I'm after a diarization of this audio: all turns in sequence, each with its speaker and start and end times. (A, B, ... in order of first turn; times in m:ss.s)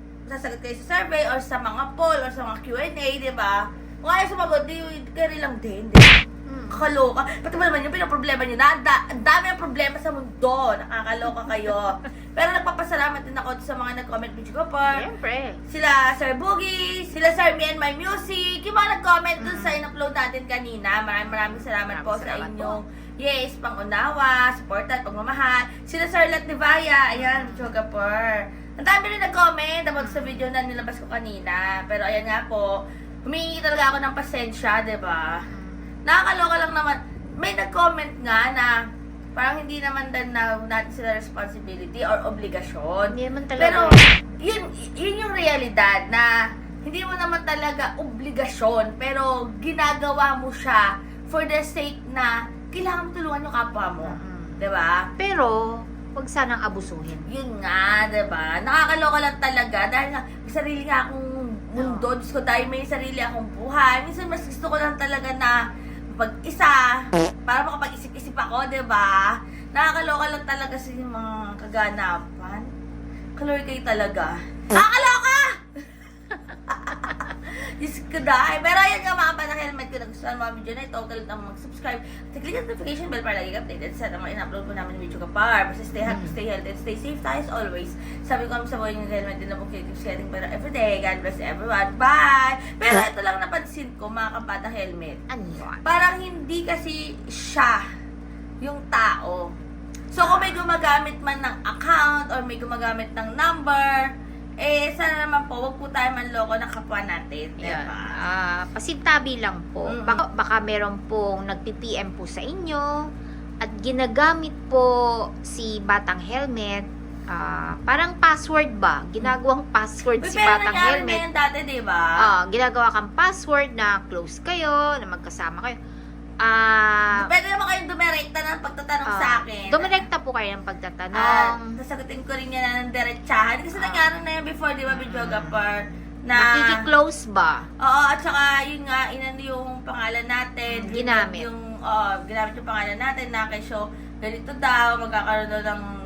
0:00.3-0:06.2 A
0:06.5-0:06.8 B
0:06.7-0:15.0 A
0:14.9-0:15.6 B
0:15.7-0:35.4 A
0:19.4-0:19.8 B
0:21.2-0:22.8 B
0:27.1-0:27.7 B
0:30.0-0:30.4 B
0:35.5-0:35.9 B
0:36.0-0:38.7 A
0:39.3-0:46.3 A
0:43.1-0:44.0 B
0:46.8-0:55.0 A
0:54.0-0:54.7 B
0:55.2-0:57.2 B
0:57.3-1:05.6 A
1:01.8-1:02.1 B
1:06.1-1:12.7 A
1:13.4-1:15.6 A
1:16.7-1:35.2 A
1:26.0-1:26.4 B
1:35.3-1:35.9 B
1:35.8-1:37.8 A
1:38.6-1:39.5 A
1:40.1-1:44.1 A
1:40.2-1:40.6 B
1:44.6-1:48.2 A
1:47.6-1:52.9 B
1:49.9-1:50.2 A
1:53.6-1:54.9 B
1:55.4-2:01.2 B
2:00.2-2:02.1 A
2:02.2-2:05.8 B
2:06.4-2:07.3 B
2:07.1-2:10.0 A
2:09.0-2:11.8 B
2:11.1-2:16.8 A
2:13.7-2:14.1 B
2:14.9-2:15.6 B
2:16.3-2:17.6 B
2:17.8-2:25.9 A
2:20.7-2:21.5 B